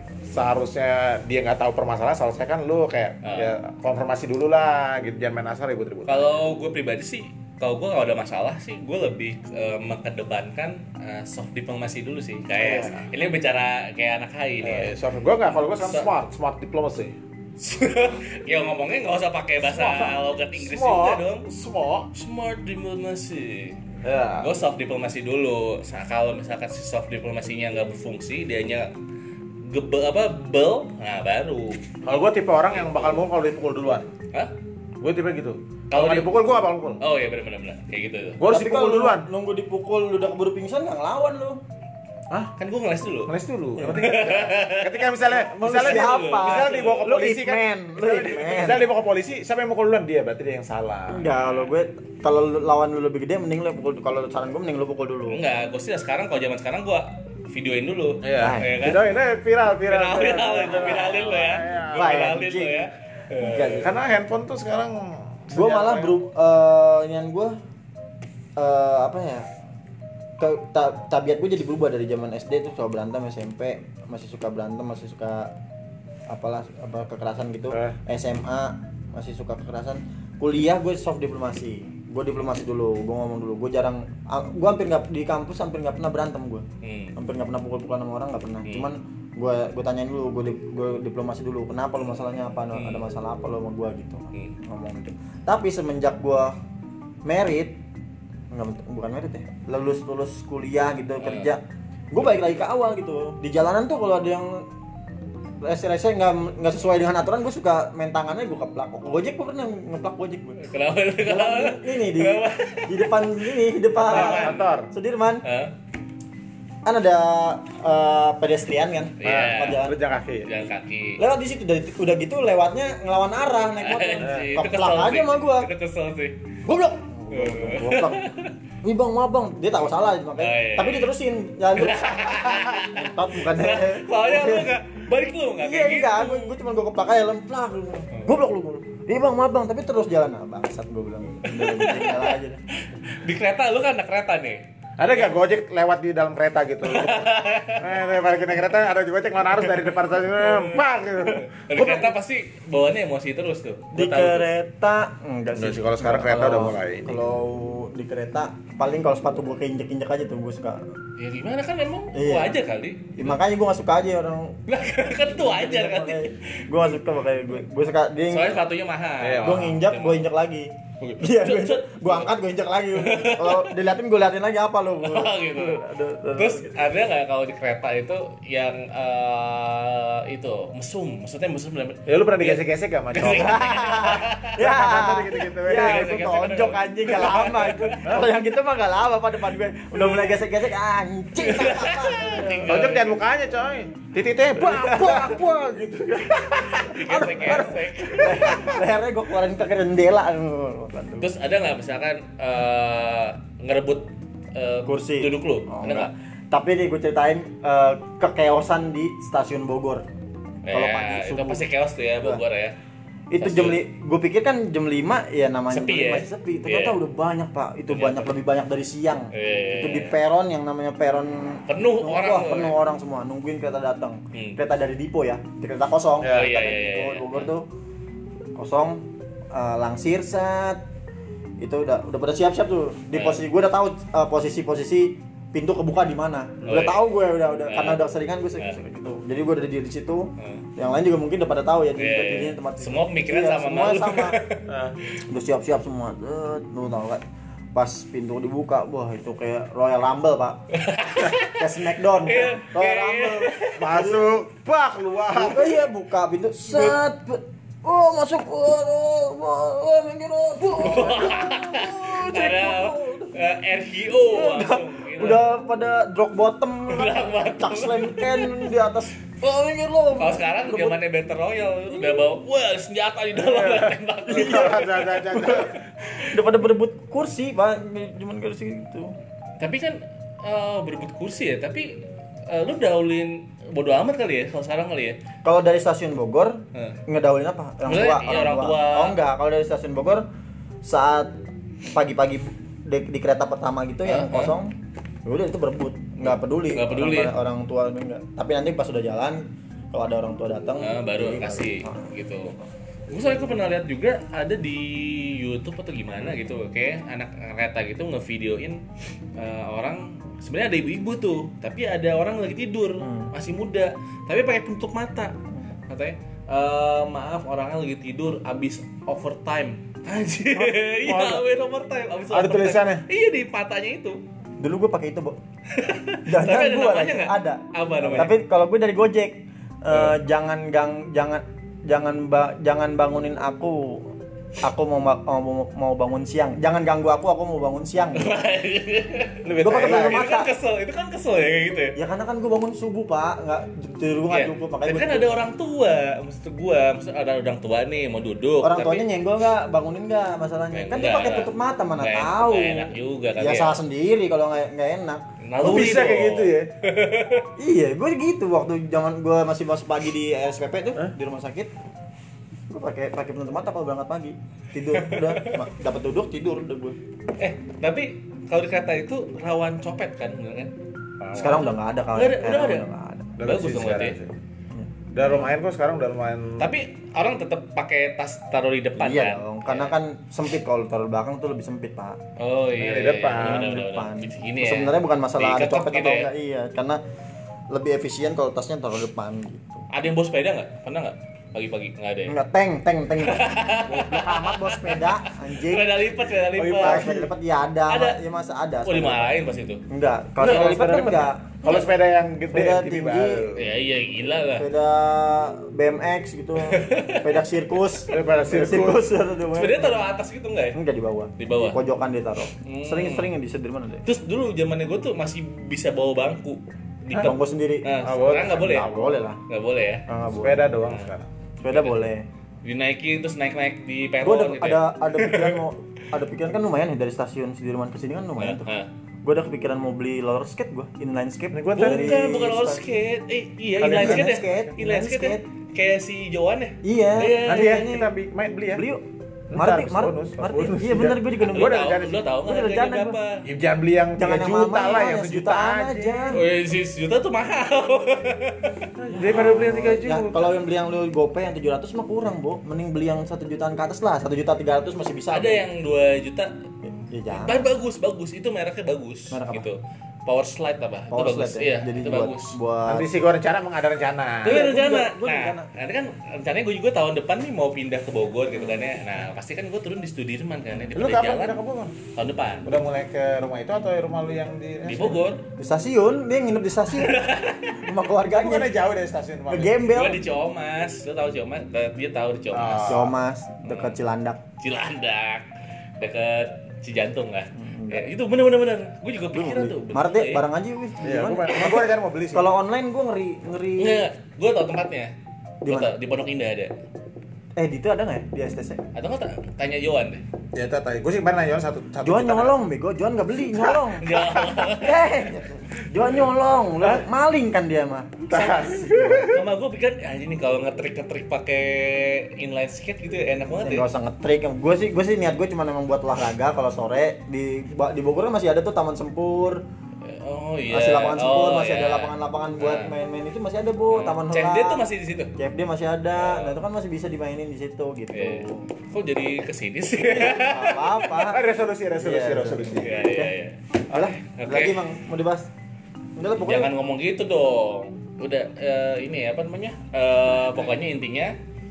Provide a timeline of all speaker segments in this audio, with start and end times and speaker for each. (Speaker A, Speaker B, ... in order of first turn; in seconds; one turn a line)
Speaker A: 0.3-6.3
Speaker B: 3.2-3.5
Speaker B: 6.1-14.9
Speaker A: 12.6-13.1
Speaker A: 14.6-17.1
Speaker B: 15.8-16.1
Speaker B: 17.6-21.5
Speaker A: 19.6-22.1
Speaker B: 22.1-23.8
Speaker A: 24.0-24.5
Speaker B: 24.4-28.9
Speaker B: 29.6-31.8
Speaker A: 32.0-34.1
Speaker A: 35.0-37.0
Speaker B: 35.9-36.3
Speaker B: 37.0-38.4
Speaker A: 38.4-39.3
Speaker C: 38.5-41.6
Speaker B: 42.6-47.1
Speaker A: 43.3-51.3
Speaker C: 43.8-44.1
Speaker C: 45.6-48.9
Speaker C: 51.1-55.4
Speaker B: 51.3-51.7
Speaker B: 55.3-59.0
Speaker A: 58.2-62.4
Speaker C: 58.4-58.7
Speaker B: 59.9-63.9
Speaker C: 61.9-62.8
Speaker C: 63.4-63.9
Speaker A: 63.8-66.2
Speaker C: 65.5-67.6
Speaker C: 68.6-69.5
Speaker C: 70.4-75.5
Speaker C: 76.3-96.6
Speaker A: 77.7-78.0
Speaker B: 86.8-87.2
Speaker B: 88.7-88.9
Speaker B: 92.7-93.1
Speaker C: 97.2-97.8
Speaker C: 98.5-101.6
Speaker B: 101.2-101.5
Speaker C: 102.1-104.7
Speaker C: 105.6-110.6
Speaker B: 110.6-113.4
Speaker C: 111.2-115.4
Speaker B: 114.0-114.7
Speaker A: 114.0-114.9
Speaker B: 115.4-115.7
Speaker C: 116.8-120.0
Speaker B: 119.2-119.9
Speaker A: 119.2-120.5
Speaker B: 120.5-121.2
Speaker C: 121.2-125.7
Speaker B: 123.8-126.4
Speaker A: 124.2-124.5
Speaker C: 126.7-128.3
Speaker B: 127.3-128.5
Speaker C: 128.8-134.7
Speaker B: 130.4-131.1
Speaker B: 131.7-136.6
Speaker C: 135.6-142.6
Speaker B: 141.4-145.3
Speaker A: 145.0-152.1
Speaker B: 146.8-147.9
Speaker B: 150.4-150.8
Speaker B: 151.6-154.5
Speaker C: 153.9-160.8
Speaker A: 155.6-157.2
Speaker B: 161.2-163.4
Speaker C: 162.1-162.6
Speaker C: 163.2-168.6
Speaker B: 164.7-166.3
Speaker B: 168.3-170.3
Speaker A: 169.2-169.8
Speaker C: 169.4-176.8
Speaker B: 171.0-172.3
Speaker B: 172.9-173.8
Speaker B: 175.0-184.6
Speaker A: 182.1-183.6
Speaker C: 183.2-192.9
Speaker A: 184.6-186.2
Speaker B: 185.7-188.2
Speaker A: 188.0-188.3
Speaker B: 191.4-193.2
Speaker A: 192.7-197.0
Speaker C: 194.6-195.4
Speaker C: 196.2-201.3
Speaker B: 196.8-198.7
Speaker A: 198.1-198.8
Speaker B: 201.2-206.1
Speaker C: 204.9-210.1
Speaker B: 210.7-212.8
Speaker C: 210.7-211.6
Speaker C: 213.3-227.7
Speaker B: 213.4-213.8
Speaker B: 215.7-217.0
Speaker B: 217.9-218.3
Speaker B: 219.3-220.2
Speaker B: 221.7-222.8
Speaker B: 224.3-224.6
Speaker A: 226.2-226.5
Speaker B: 226.2-227.5
Speaker C: 228.6-230.8
Speaker C: 231.6-244.4
Speaker B: 233.1-233.4
Speaker B: 236.7-237.0
Speaker B: 237.7-238.0
Speaker B: 240.4-240.6
Speaker B: 242.0-244.6
Speaker A: 244.7-245.0
Speaker C: 245.3-247.2
Speaker C: 247.7-250.6
Speaker B: 250.7-253.8
Speaker C: 251.2-254.4
Speaker A: 253.8-255.8
Speaker C: 255.3-263.4
Speaker B: 260.7-265.4
Speaker C: 264.2-271.0
Speaker B: 266.9-268.7
Speaker B: 270.2-275.0
Speaker C: 271.9-272.3
Speaker A: 273.4-275.8
Speaker C: 274.3-279.1
Speaker B: 279.6-285.2
Speaker C: 285.4-290.3
Speaker B: 286.7-287.0
Speaker B: 287.9-289.2
Speaker C: 290.8-291.4
Speaker C: 291.9-302.1
Speaker B: 294.1-294.6
Speaker B: 296.2-297.4
Speaker B: 300.8-302.6
Speaker B: 303.1-308.8
Speaker B: 309.4-315.4
Speaker C: 313.0-313.3
Speaker B: 315.9-324.2
Speaker A: 320.6-321.4
Speaker A: 322.3-323.1
Speaker C: 324.6-325.4
Speaker B: 325.7-328.3
Speaker C: 326.3-338.4
Speaker B: 338.1-342.0
Speaker A: 339.4-340.3
Speaker C: 339.6-340.5
Speaker C: 341.9-345.5
Speaker B: 344.3-349.1
Speaker C: 348.6-355.2
Speaker B: 350.7-353.8
Speaker B: 355.4-357.5
Speaker A: 355.6-356.7
Speaker C: 357.6-361.7
Speaker C: 362.7-367.0
Speaker B: 364.9-365.6
Speaker B: 367.4-370.7
Speaker A: 371.2-371.7
Speaker C: 371.3-373.3
Speaker B: 371.4-372.9
Speaker A: 373.4-374.3
Speaker B: 373.4-374.2
Speaker A: 375.1-376.7
Speaker B: 376.6-380.0
Speaker C: 379.0-382.2
Speaker B: 382.4-386.3
Speaker A: 382.7-383.7
Speaker C: 383.4-387.0
Speaker C: 387.7-389.9
Speaker B: 389.9-392.4
Speaker C: 392.3-399.4
Speaker B: 393.2-397.2
Speaker A: 396.6-397.3
Speaker B: 397.9-398.2
Speaker B: 398.8-399.8
Speaker C: 399.9-401.9
Speaker A: 400.4-403.7
Speaker B: 400.4-401.0
Speaker C: 402.5-403.5
Speaker B: 403.6-404.7
Speaker C: 404.6-410.1
Speaker B: 406.6-407.4
Speaker A: 408.1-409.1
Speaker B: 409.5-410.8
Speaker C: 410.7-414.1
Speaker B: 411.4-411.8
Speaker B: 412.5-413.3
Speaker B: 414.1-419.0
Speaker C: 417.2-419.4
Speaker A: 418.0-419.3
Speaker B: 419.5-420.1
Speaker C: 420.1-420.7
Speaker A: 420.4-421.3
Speaker C: 421.6-422.3
Speaker B: 421.7-422.0
Speaker B: 422.6-425.6
Speaker C: 424.2-428.7
Speaker B: 428.4-428.9
Speaker C: 429.2-432.9
Speaker A: 431.5-432.2
Speaker B: 431.7-437.9
Speaker A: 433.8-434.3
Speaker C: 433.8-435.4
Speaker C: 436.8-438.1
Speaker A: 437.4-438.9
Speaker C: 438.7-443.2
Speaker A: 439.5-442.3
Speaker B: 441.4-443.5
Speaker A: 443.4-446.4
Speaker C: 444.2-446.4
Speaker B: 446.3-448.9
Speaker A: 449.0-450.6
Speaker C: 449.1-455.6
Speaker B: 455.3-456.5
Speaker C: 456.9-457.7
Speaker B: 457.3-462.6
Speaker C: 459.3-459.7
Speaker C: 461.1-463.1
Speaker A: 462.9-464.6
Speaker C: 464.4-465.7
Speaker B: 464.4-471.6
Speaker C: 468.6-469.3
Speaker A: 470.9-471.9
Speaker B: 472.1-472.7
Speaker A: 472.6-475.3
Speaker B: 474.9-475.4
Speaker C: 475.6-478.8
Speaker B: 476.9-477.9
Speaker A: 478.2-479.9
Speaker C: 479.5-480.2
Speaker B: 479.9-483.1
Speaker A: 482.5-483.1
Speaker C: 482.9-484.4
Speaker B: 483.6-483.9
Speaker B: 484.6-485.5
Speaker B: 486.0-490.4
Speaker C: 487.5-488.1
Speaker C: 489.3-494.1
Speaker A: 491.0-492.5
Speaker B: 493.8-495.1
Speaker C: 495.6-495.9
Speaker B: 495.7-496.7
Speaker C: 497.6-498.8
Speaker B: 498.9-500.2
Speaker A: 500.5-502.6
Speaker C: 502.0-509.3
Speaker A: 503.5-504.6
Speaker B: 504.0-505.1
Speaker A: 508.3-509.4
Speaker B: 508.3-513.9
Speaker C: 513.6-519.6
Speaker B: 520.0-522.9
Speaker C: 520.7-528.7
Speaker B: 523.9-525.4
Speaker B: 526.1-526.6
Speaker B: 528.1-531.1
Speaker A: 530.2-530.5
Speaker C: 530.4-531.4
Speaker A: 531.1-532.9
Speaker C: 532.0-533.3
Speaker B: 532.8-533.6
Speaker C: 533.9-535.5
Speaker A: 533.9-534.1
Speaker B: 534.4-534.8
Speaker C: 536.2-536.7
Speaker B: 536.4-541.4